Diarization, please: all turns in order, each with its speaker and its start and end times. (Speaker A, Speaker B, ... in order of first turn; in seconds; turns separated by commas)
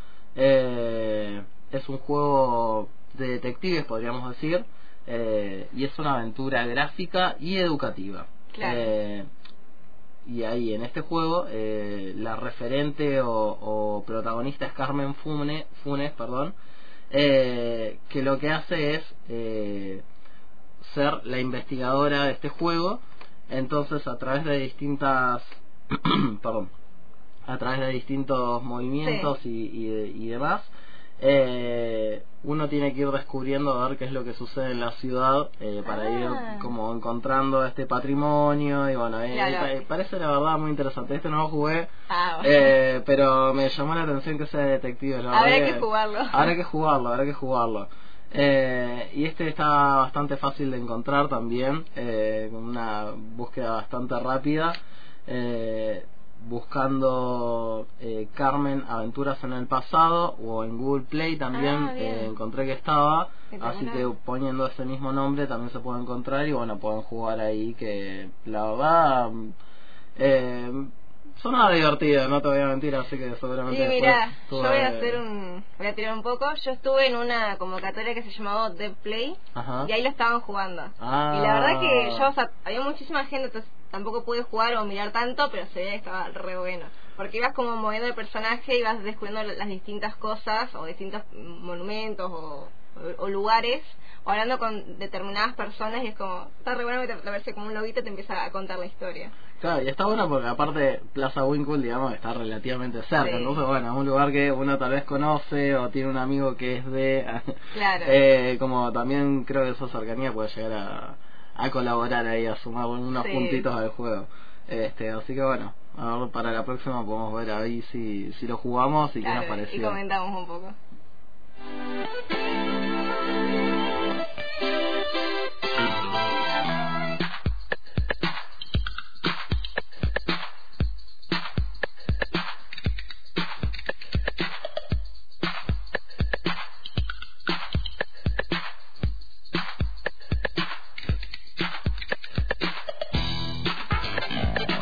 Speaker A: 0.4-9.3, Speaker B: 8.5-8.9, Speaker A: 10.3-16.6, Speaker A: 17.1-20.0, Speaker A: 20.8-26.7, Speaker A: 27.5-41.9, Speaker B: 29.0-29.3, Speaker B: 35.9-36.7, Speaker B: 39.3-39.8, Speaker B: 42.1-42.8, Speaker A: 42.4-54.8, Speaker B: 45.3-46.5, Speaker A: 55.3-69.5, Speaker B: 61.5-62.3, Speaker B: 63.5-64.1, Speaker A: 70.2-75.2, Speaker B: 73.7-99.3, Speaker A: 79.5-79.9, Speaker A: 81.0-82.3, Speaker A: 99.6-120.0, Speaker B: 103.2-103.6, Speaker B: 107.7-108.2, Speaker B: 113.2-113.7, Speaker B: 119.2-120.8